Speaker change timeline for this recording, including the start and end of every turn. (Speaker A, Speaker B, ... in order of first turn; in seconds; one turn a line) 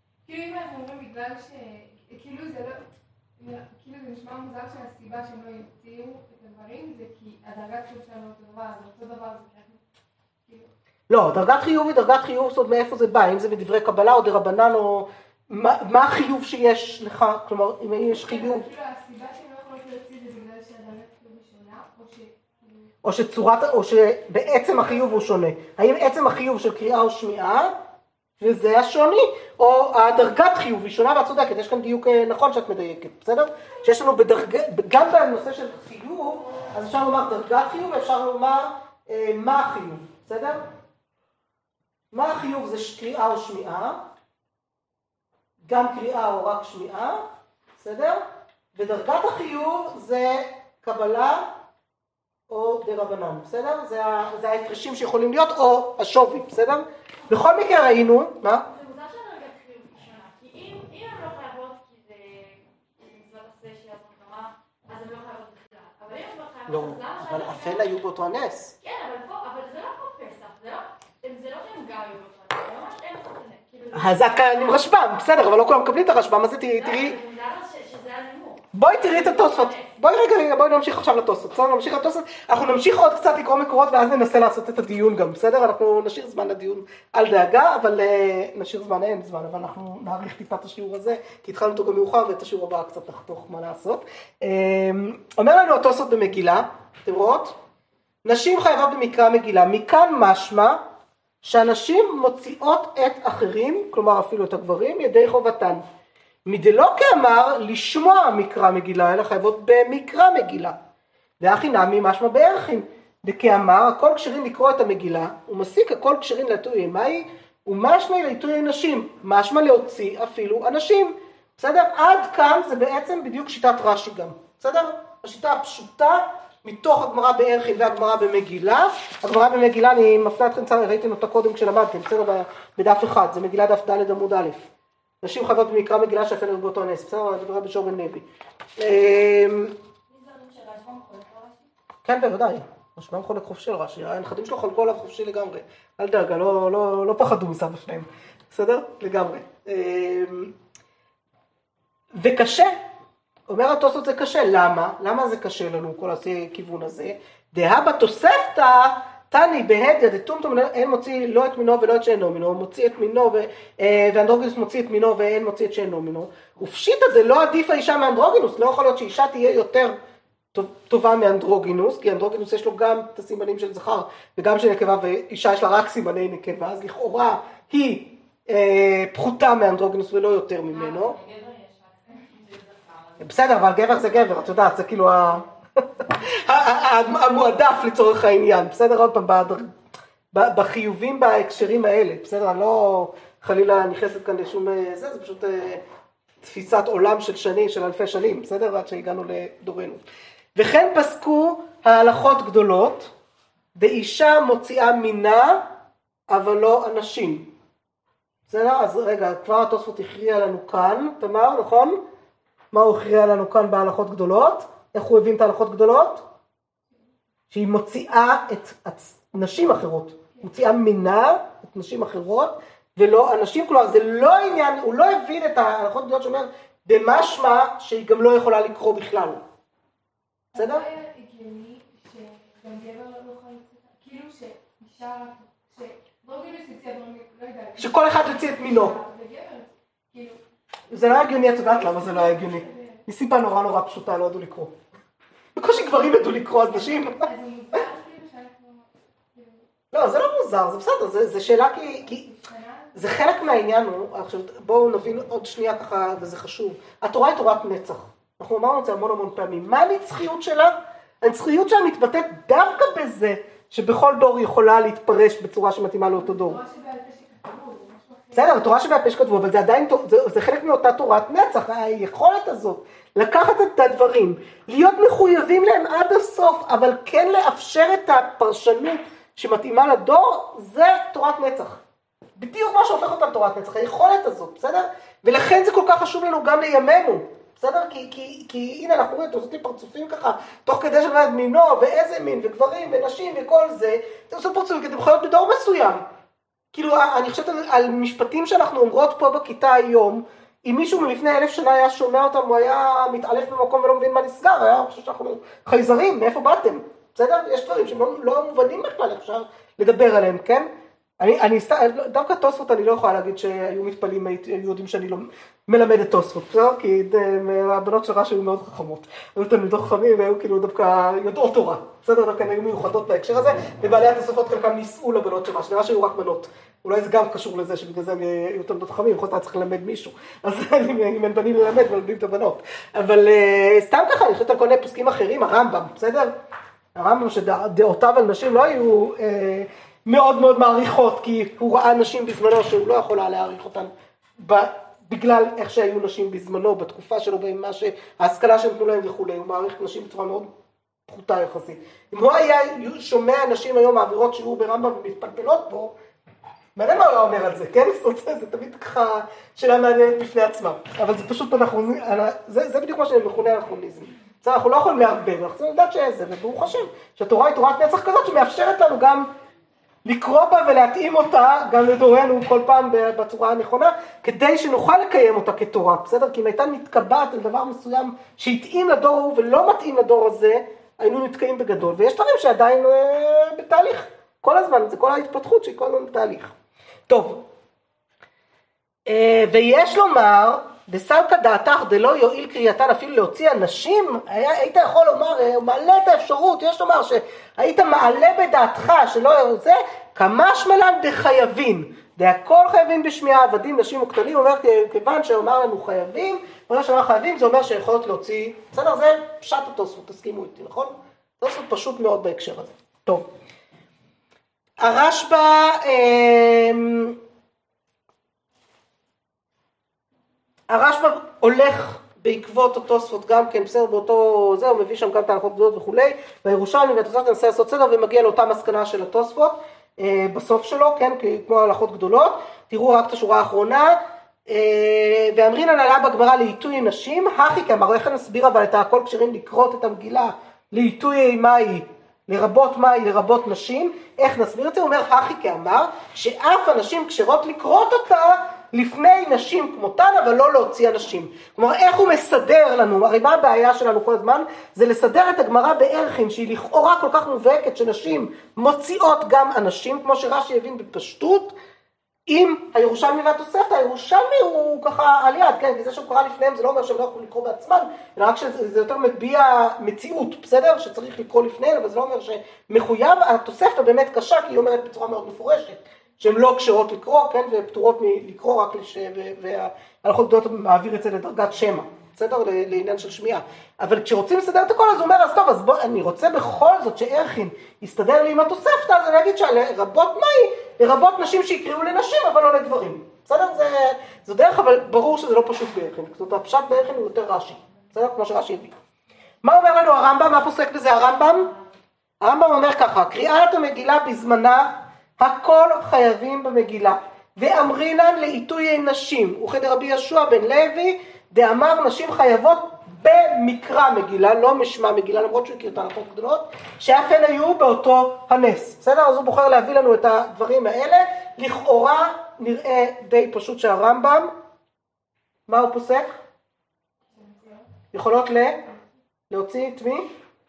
Speaker A: 0.2-2.9
Speaker A: 3.4-9.8
Speaker B: 11.1-18.7
Speaker A: 18.2-22.8
Speaker B: 23.0-27.7
Speaker B: 28.4-40.6
Speaker B: 42.1-44.0
Speaker B: 45.6-47.2
Speaker B: 47.8-48.2
Speaker B: 48.8-51.5
Speaker B: 52.5-58.7
Speaker C: 58.7-67.9
Speaker B: 66.7-68.7
Speaker C: 68.8-74.3
Speaker B: 73.9-77.2
Speaker C: 76.8-79.9
Speaker B: 78.7-97.6
Speaker B: 98.2-100.8
Speaker B: 101.4-105.8
Speaker B: 106.5-110.8
Speaker B: 111.4-134.7
Speaker B: 135.2-138.2
Speaker B: 138.8-139.8
Speaker C: 140.1-141.6
Speaker B: 142.0-150.5
Speaker B: 152.2-152.8
Speaker B: 153.5-169.9
Speaker B: 170.5-181.2
Speaker C: 180.7-183.3
Speaker B: 183.2-185.4
Speaker B: 186.0-189.8
Speaker B: 190.3-195.8
Speaker B: 196.4-200.0
Speaker B: 200.6-203.1
Speaker B: 203.8-205.7
Speaker B: 206.3-207.5
Speaker B: 208.5-212.0
Speaker B: 212.7-216.2
Speaker B: 217.5-229.4
Speaker A: 230.5-240.4
Speaker B: 230.6-230.8
Speaker B: 237.8-239.0
Speaker B: 240.9-244.7
Speaker A: 241.1-243.0
Speaker B: 245.6-247.3
Speaker A: 246.8-249.6
Speaker B: 249.9-252.3
Speaker A: 251.9-253.5
Speaker B: 252.9-266.6
Speaker A: 266.1-268.7
Speaker B: 268.3-281.8
Speaker B: 282.4-296.0
Speaker B: 296.7-336.3
Speaker B: 336.9-350.5
Speaker B: 351.1-355.9
Speaker B: 356.8-369.3
Speaker B: 370.1-386.5
Speaker B: 387.1-387.5
Speaker B: 389.1-413.3
Speaker B: 414.8-417.2
Speaker B: 420.7-461.6
Speaker B: 462.3-498.7
Speaker B: 499.4-501.5
Speaker B: 502.2-524.3
Speaker B: 525.5-526.1
Speaker A: 527.2-527.6
Speaker B: 527.9-528.7
Speaker B: 529.3-530.1